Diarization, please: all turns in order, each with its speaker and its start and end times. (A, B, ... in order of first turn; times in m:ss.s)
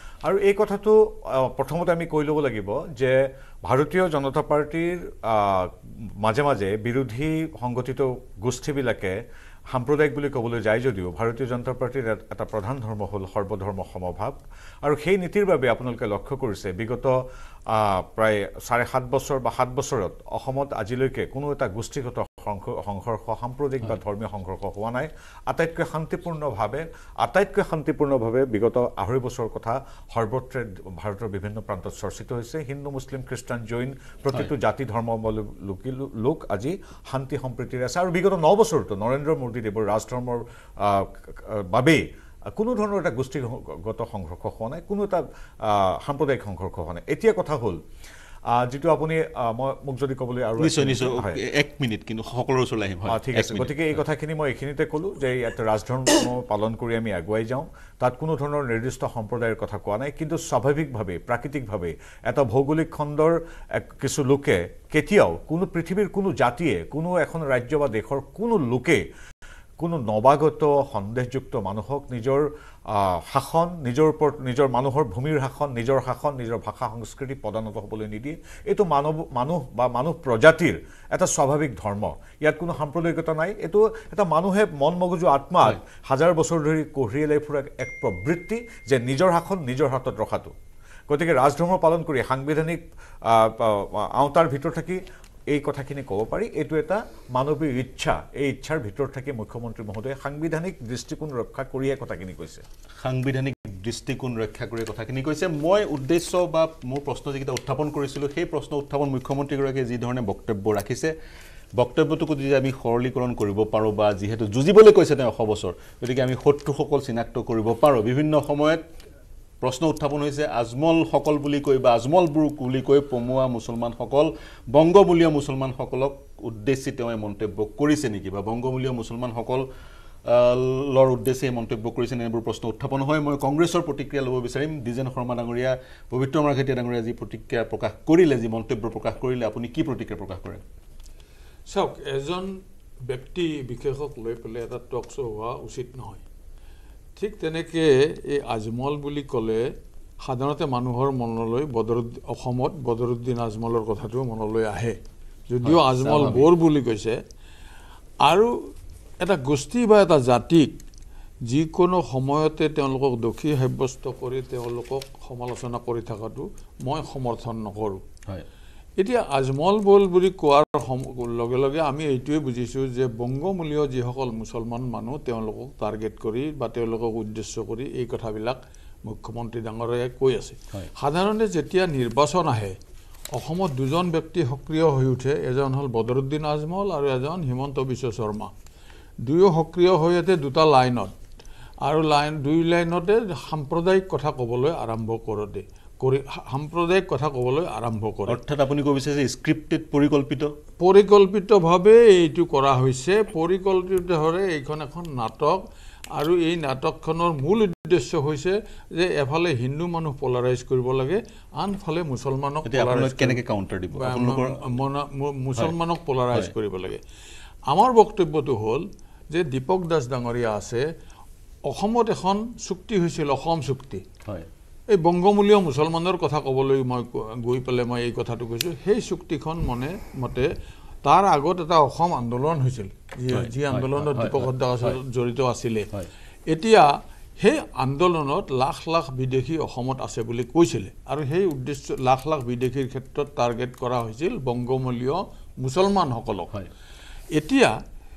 0:00.2-0:09.2 A
0:09.7-0:17.2 A
0:17.7-0:47.8 A
0:48.5-0:51.4 A
0:50.6-0:54.0 B
0:53.1-1:09.0 A
1:09.8-1:30.5 A
1:31.1-1:42.6 A
1:43.0-1:51.1 B
1:51.8-1:58.9 B
1:59.6-2:09.7 B
2:10.3-2:20.6 B
2:21.7-2:26.2 C
2:27.2-2:37.2 C
2:35.6-2:36.5 B
2:38.2-2:38.5 C
2:39.2-2:40.8 C
2:41.5-2:48.0 C
2:49.0-3:02.8 C
3:03.3-3:08.5 C
3:09.2-3:11.1 C
3:11.8-3:18.4 C
3:18.3-3:20.5 B
3:20.8-3:25.6 C
3:26.1-3:33.4 C
3:32.7-3:34.6 B
3:34.0-3:37.0 C
3:37.7-3:40.8 C
3:41.7-3:44.0 C
3:44.9-3:50.5 C
3:51.0-3:55.9 C
3:53.3-3:55.0 B
3:56.5-4:06.5 C
4:07.3-4:07.8 C